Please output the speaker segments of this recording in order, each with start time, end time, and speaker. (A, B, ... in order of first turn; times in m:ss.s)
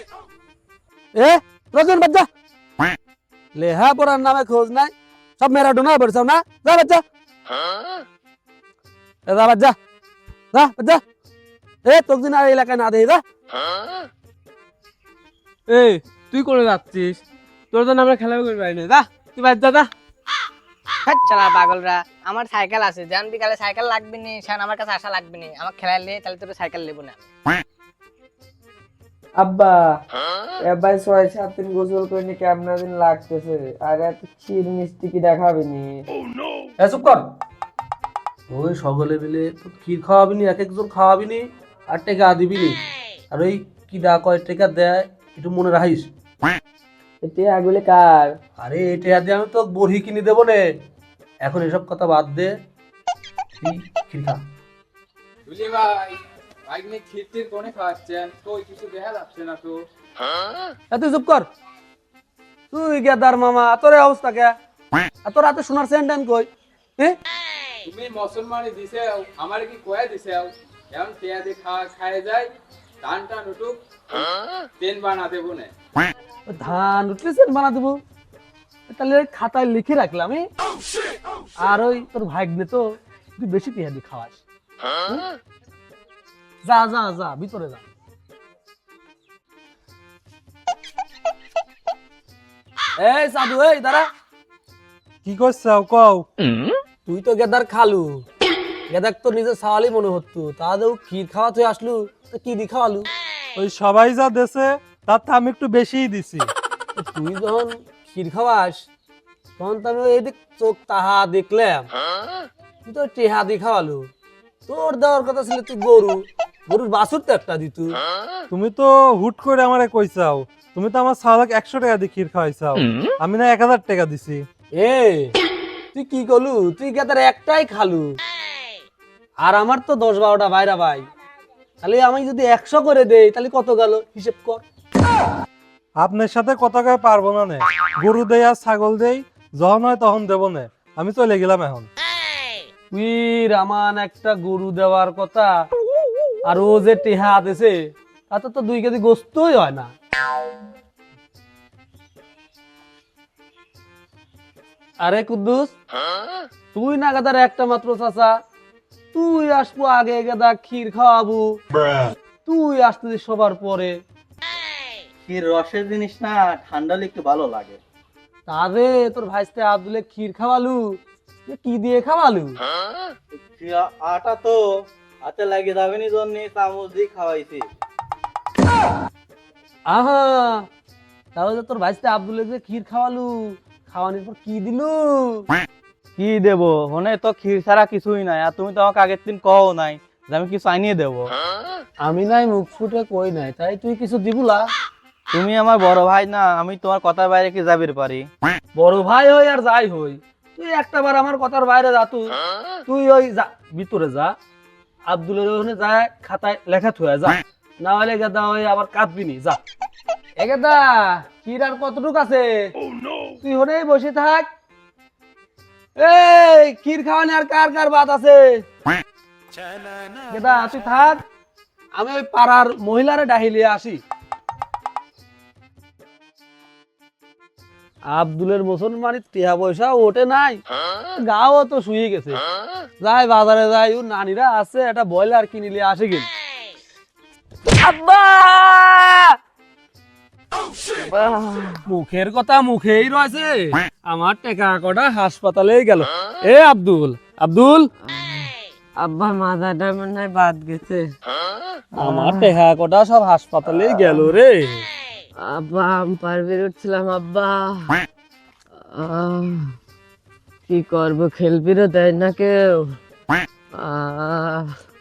0:01.2-0:02.3 A
0:03.6-0:07.0 A
0:09.3-0:09.8 A
0:10.5-0:11.0 A
0:11.8-0:13.2 A
0:15.7-0:17.2 B
0:17.7-0:19.9 B
0:21.0-0:27.2 C
0:29.4-0:30.0 D
0:30.7-0:36.0 D
0:36.8-0:37.3 A
0:38.5-0:42.8 A
0:43.3-0:46.1 A
0:47.2-0:48.4 D
0:48.6-0:50.6 A
0:51.4-0:52.6 A
0:53.6-0:54.4 A
0:55.5-0:59.8 E
1:00.9-1:01.4 A
1:02.7-1:04.6 A
1:05.2-1:07.2 A
1:07.8-1:15.7 E
1:16.5-1:18.0 A
1:18.9-1:20.4 A
1:21.6-1:22.8 A
1:23.4-1:24.4 A
1:26.6-1:27.9 A
1:33.0-1:34.1 A
1:35.2-1:36.3 F
1:37.1-1:38.1 A
1:38.9-1:43.1 A
1:43.6-1:46.5 F
1:47.0-1:48.9 A
1:49.6-1:51.9 A
1:52.8-1:54.1 A
1:54.7-1:58.0 A
1:58.5-2:04.5 F
2:04.8-2:05.3 A
2:05.9-2:08.0 A
2:09.4-2:11.1 A
2:11.8-2:14.6 A
2:16.0-2:21.9 F
2:22.9-2:25.5 A
2:26.4-2:27.7 A
2:28.3-2:29.9 A
2:35.0-2:35.7 A
2:36.7-2:38.3 A
2:39.1-2:41.5 A
2:42.4-2:43.9 A
2:45.3-2:47.8 G
2:48.5-2:52.6 A
2:53.4-2:54.6 G
2:55.3-2:57.7 G
2:59.9-3:00.7 A
3:01.4-3:05.5 A
3:06.2-3:11.3 G
3:12.0-3:14.7 A
3:15.3-3:18.3 G
3:18.8-3:22.4 A
3:22.9-3:24.3 A
3:25.1-3:29.6 A
3:30.4-3:32.5 A
3:33.4-3:34.5 A
3:36.0-3:38.6 A
3:40.3-3:41.2 A
3:42.0-3:44.0 A
3:48.1-3:50.6 A
3:51.2-3:52.4 A
3:53.0-3:56.3 A
3:57.8-3:59.3 A
4:01.0-4:01.8 D
4:01.9-4:07.9 A
4:08.0-4:11.2 D
4:11.9-4:12.6 D
4:12.0-4:14.9 A
4:15.4-4:18.0 D
4:18.8-4:19.8 D
4:20.7-4:23.0 D
4:23.8-4:24.8 D